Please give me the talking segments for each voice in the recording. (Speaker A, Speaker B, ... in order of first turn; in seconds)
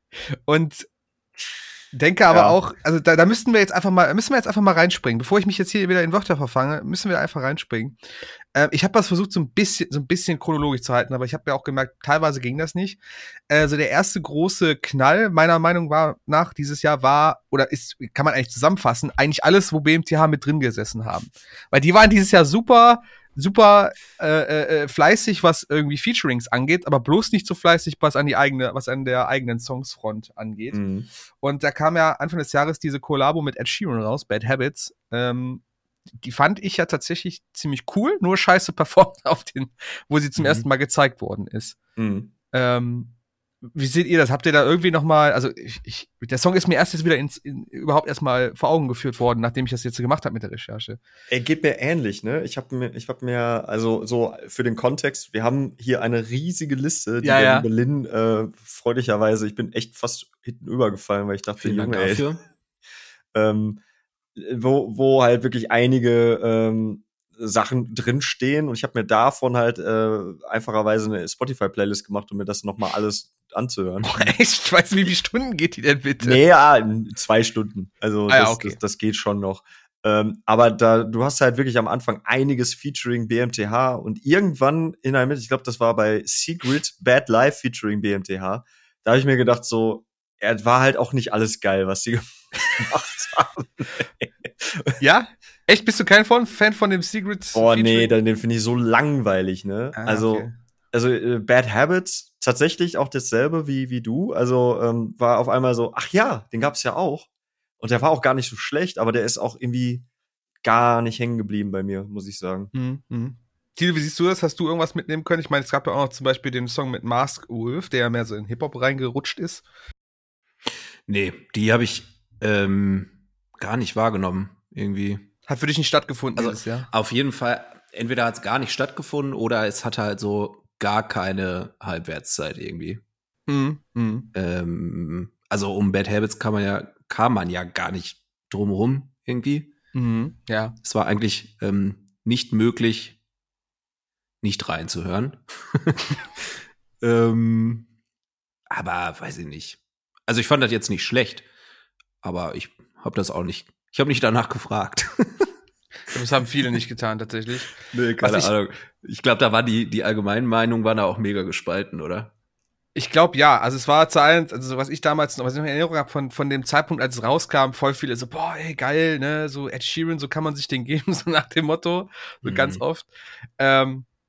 Speaker A: 0.5-0.9, 1.9-8.0, 8.5-13.0, 13.5-30.8, 31.4-35.6, 36.2-41.8, 42.5-43.1, 43.7-51.0, 57.2-57.6, 74.0-76.4, 78.3-78.8, 95.0-98.2, 100.0-100.5, 112.7-119.6, 125.5-126.9, 133.5-134.3, 139.9-140.8, 156.1-157.7, 162.9-174.1
Speaker B: 2.3-2.6, 30.7-31.1, 42.0-42.3, 51.3-62.2, 63.3-63.8, 64.4-74.3, 76.2-95.0, 97.5-107.3, 107.8-110.0, 110.6-112.7, 157.9-158.5
Speaker C: 61.6-62.4, 121.1-125.3, 126.4-133.0, 134.3-139.7, 140.8-143.2, 144.4-146.1, 147.0-147.9, 148.7-151.4, 152.2-155.5, 158.2-162.3, 172.4-172.8